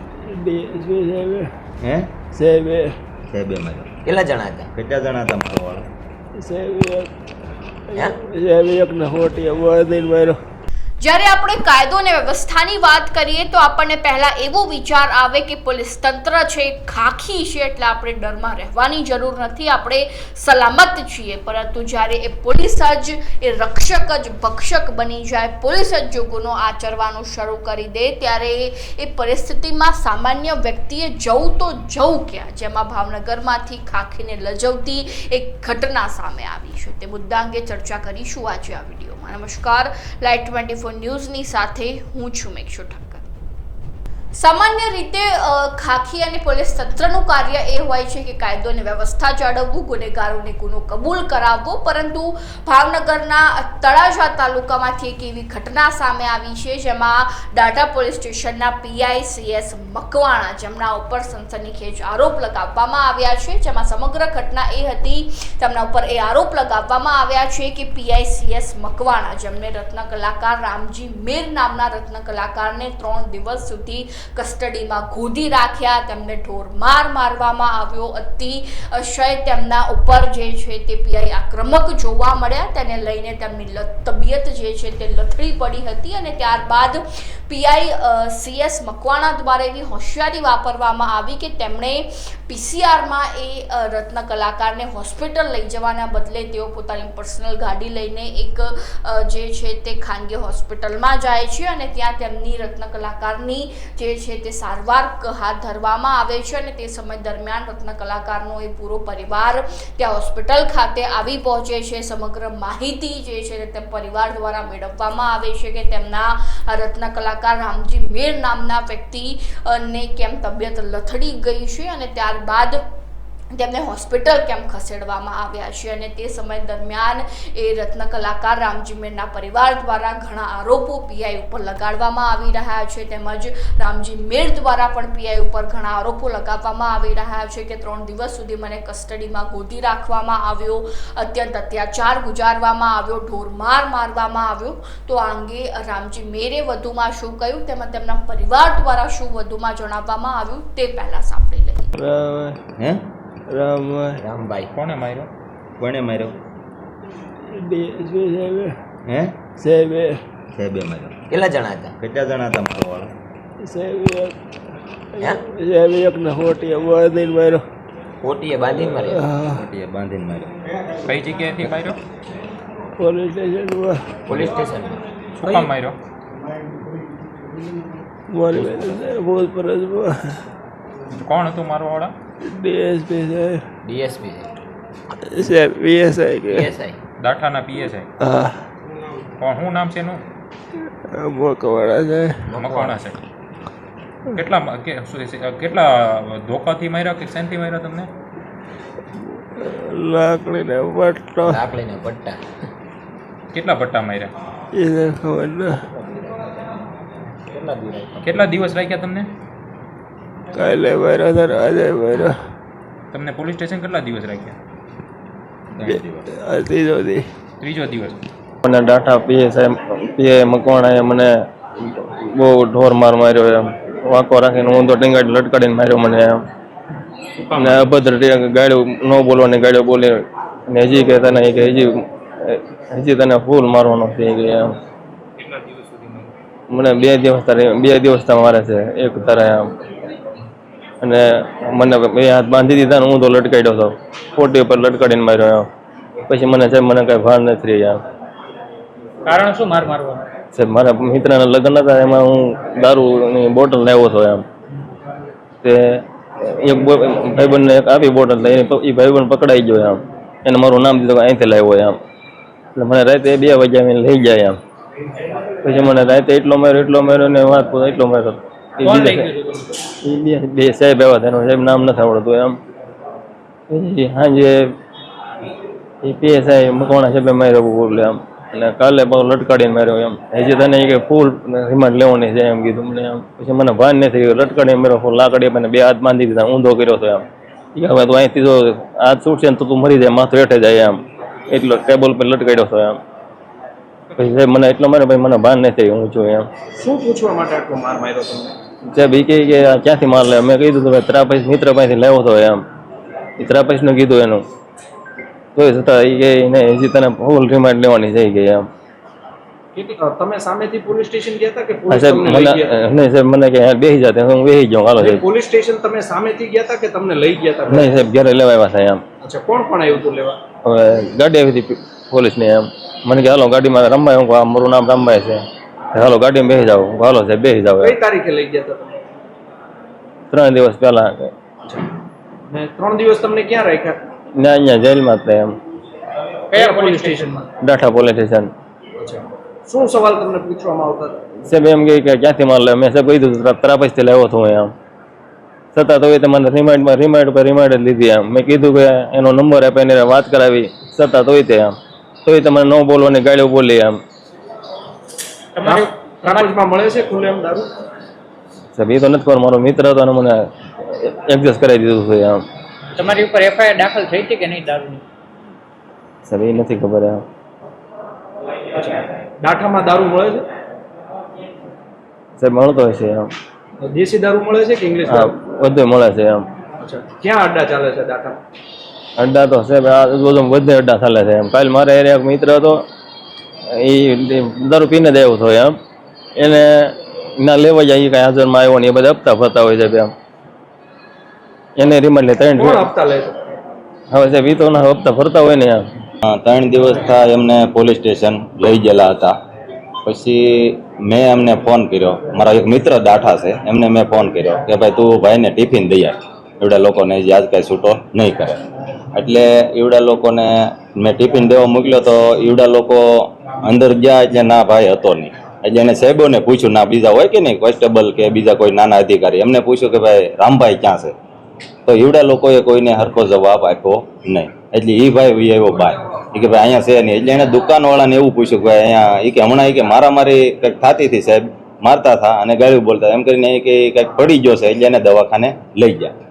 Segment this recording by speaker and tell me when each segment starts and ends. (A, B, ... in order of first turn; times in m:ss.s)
0:00.4-0:01.4 A
0:01.8-0:02.1 B
0:02.3-0:02.9 A
0:03.3-0:03.9 B
0:04.0-0:04.7 C
0:04.7-0:05.9 B
0:06.4-0:07.1 A
0:07.9-0:10.4 A
0:11.0-0:43.2 D
0:44.4-2:02.8 D
2:03.5-2:31.9 D
2:32.8-2:33.0 B
2:33.5-2:34.1 A
2:34.2-2:34.7 C
2:34.7-2:35.3 E
2:35.8-2:36.4 B
2:37.7-2:38.7 A
2:39.1-2:39.4 B
2:39.6-2:40.1 A
2:40.5-2:41.2 B
2:41.3-2:41.9 C
2:42.0-2:43.1 B
2:43.6-2:44.3 A
2:45.2-2:47.6 A
2:48.2-2:49.2 C
2:49.4-2:50.5 B
2:51.0-2:52.0 E
2:53.0-2:54.0 A
2:54.3-2:55.6 C
2:55.4-2:56.0 E
2:58.3-3:00.4 A
2:58.5-2:58.9 C
3:01.2-3:02.1 E
3:02.4-3:03.6 A
3:03.8-3:04.5 C
3:05.3-3:06.7 A
3:06.5-3:07.0 C
3:07.2-3:08.1 E
3:08.2-3:08.5 A
3:09.4-3:10.2 E
3:11.1-3:12.3 A
3:12.5-3:13.0 C
3:12.5-3:13.2 E
3:14.3-3:18.1 E
3:19.6-3:21.6 A
3:21.4-3:22.4 C
3:23.5-3:24.3 E
3:24.7-3:25.8 A
3:26.0-3:26.5 C
3:27.5-3:28.2 C
3:28.2-3:29.3 E
3:30.5-3:32.3 A
3:33.1-3:34.6 E
3:35.7-3:36.3 B
3:36.4-3:37.3 A
3:37.6-3:38.2 E
3:38.6-3:41.3 F
3:41.8-3:46.4 F
3:47.5-3:47.8 E
3:47.5-3:54.8 F
3:55.6-3:56.0 E
3:56.7-3:59.7 F
4:01.0-4:05.7 F
4:06.3-4:08.0 F
4:09.2-4:10.2 G
4:10.5-4:14.4 F
4:15.6-4:22.0 F
4:22.7-4:24.6 F
4:25.6-4:29.3 F
4:28.8-4:29.4 G
4:30.0-4:32.6 F
4:33.7-4:34.7 F
4:36.0-4:53.0 F
4:54.2-4:56.5 F
4:56.8-4:58.5 H
4:58.9-5:02.6 F
5:03.4-5:04.4 F
5:05.5-5:08.7 F
5:09.7-5:12.7 H
5:11.9-5:15.2 F
5:15.0-5:18.0 H
5:17.7-5:19.0 F
5:19.2-5:20.4 H
5:20.6-5:28.0 F
5:27.8-5:29.0 H
5:30.3-5:31.3 F
5:32.5-5:34.0 H
5:34.4-5:35.6 F
5:36.5-5:37.3 G
5:36.6-5:37.4 H
5:37.6-5:38.5 F
5:39.0-5:41.2 H
5:41.4-5:44.7 F
5:45.7-5:54.0 F
5:55.6-5:55.9 G
5:55.6-5:57.7 H
5:58.8-6:02.4 F
6:03.0-6:05.0 G
6:06.2-6:07.2 F
6:08.7-6:10.5 H
6:12.4-6:13.3 F
6:13.8-6:15.3 H
6:15.1-6:16.5 F
6:16.8-6:18.4 H
6:19.2-6:22.8 F
6:23.7-6:25.8 F
6:26.4-6:30.1 F
6:31.8-6:32.9 F
6:32.6-6:33.4 H
6:34.1-6:35.9 F
6:36.2-6:39.3 B
6:40.0-6:48.6 B
6:49.1-7:01.1 B
7:01.8-7:16.1 B